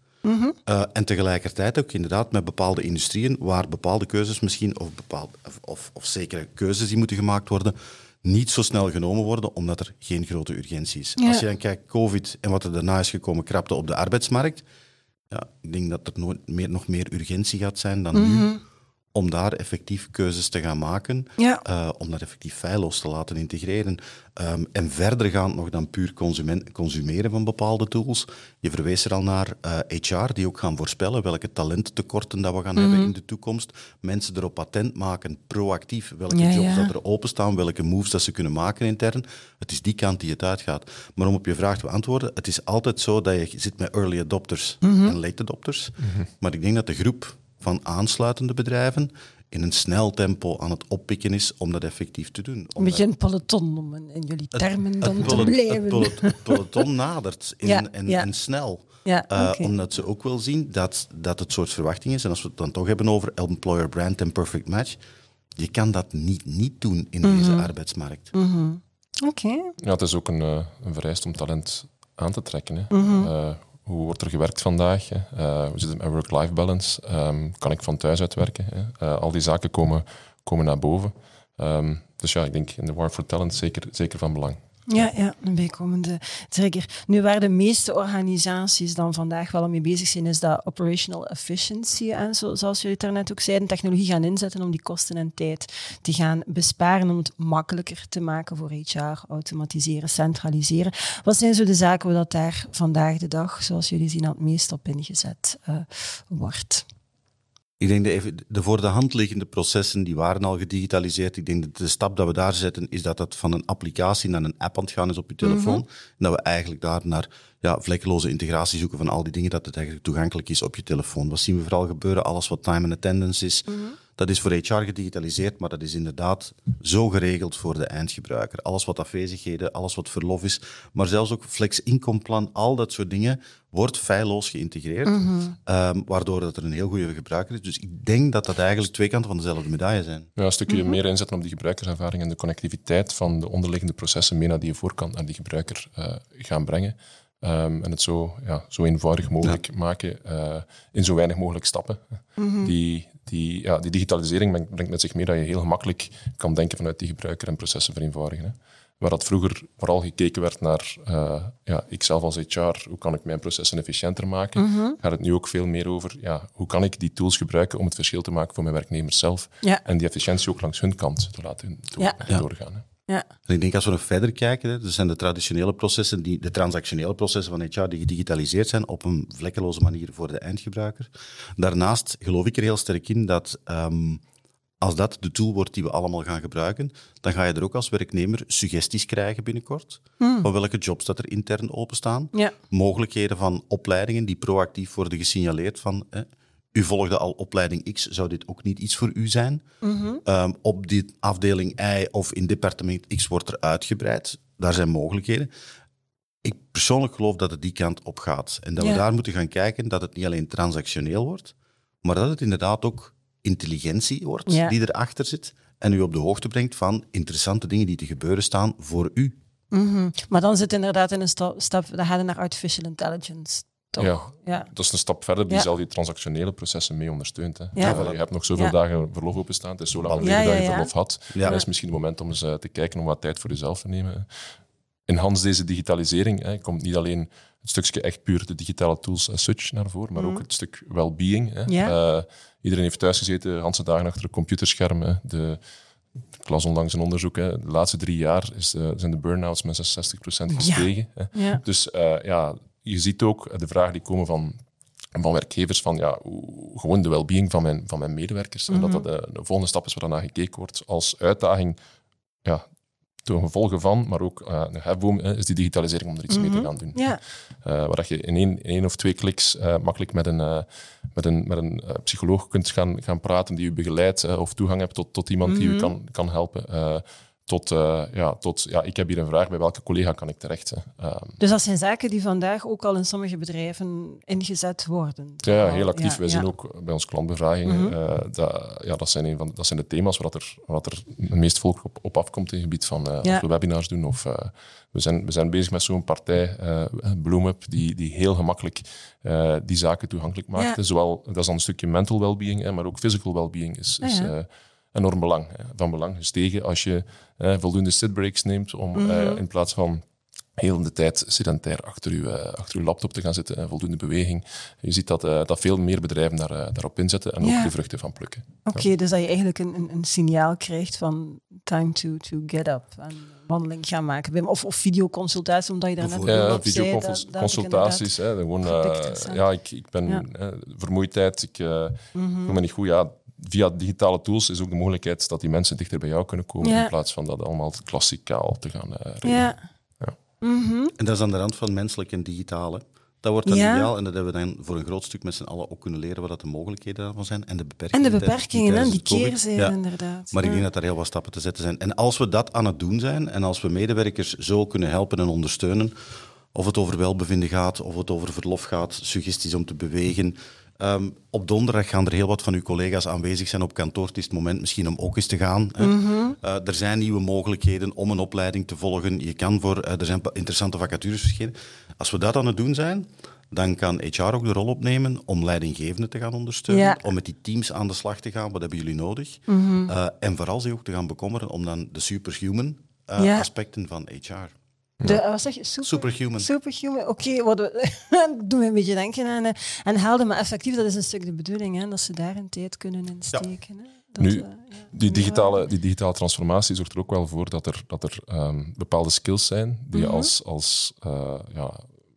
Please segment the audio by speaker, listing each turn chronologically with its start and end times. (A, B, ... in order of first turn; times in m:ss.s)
0:00.2-0:00.6 A
0:00.6-0:14.6 B
0:11.2-0:11.4 A
0:15.3-0:18.5 B
0:18.1-0:18.6 A
0:19.1-0:53.0 B
0:32.8-0:33.1 A
0:36.3-0:36.9 A
0:44.8-0:45.2 A
0:52.8-0:56.6 A
0:54.6-1:05.0 B
0:57.6-0:58.3 A
0:59.0-0:59.7 A
1:05.6-1:08.3 B
1:07.2-1:07.7 A
1:08.3-1:09.7 A
1:09.8-1:24.6 C
1:12.9-1:13.3 A
1:24.9-1:46.8 A
1:47.8-2:20.3 B
1:55.4-1:55.8 A
2:03.7-2:04.0 A
2:15.0-2:15.6 A
2:20.4-2:32.0 C
2:20.7-2:21.0 A
2:32.4-2:32.7 A
2:32.6-2:52.8 C
2:44.6-2:45.0 A
2:53.4-3:04.2 B
3:04.8-3:19.6 B
3:10.2-3:10.5 A
3:19.8-3:20.2 A
3:20.2-3:25.5 B
3:26.4-3:39.4 B
3:34.5-3:34.7 A
3:39.7-3:44.7 A
3:44.0-3:54.3 C
3:47.8-3:48.2 B
3:50.0-3:50.4 B
3:50.2-3:50.9 A
3:51.3-3:51.6 B
3:55.1-4:05.6 C
4:00.2-4:00.4 A
4:01.7-4:02.0 A
4:06.4-4:14.6 C
4:10.5-4:11.6 A
4:15.1-4:21.8 C
4:18.7-4:19.0 A
4:23.2-4:41.4 C
4:26.3-4:27.2 A
4:35.4-4:35.9 A
4:41.4-4:46.4 A
4:45.4-5:10.0 C
4:47.6-4:47.9 A
5:04.0-5:04.3 A
5:09.0-5:09.4 A
5:10.6-5:18.9 C
5:17.4-5:17.7 A
5:18.7-5:28.1 A
5:26.0-5:26.4 B
5:26.2-5:40.1 C
5:28.6-5:29.4 A
5:32.1-5:32.6 A
5:36.6-5:36.9 A
5:39.2-5:39.6 A
5:40.4-5:40.9 A
5:41.0-5:49.8 B
5:43.4-5:43.9 A
5:47.9-5:50.6 A
5:50.3-5:55.9 B
5:56.5-6:24.5 B
6:05.8-6:06.4 A
6:16.7-6:17.0 A
6:19.5-6:19.9 A
6:23.2-6:23.5 A
6:25.0-6:35.6 A
6:25.8-6:26.5 B
6:34.2-6:41.8 C
6:39.9-6:40.3 A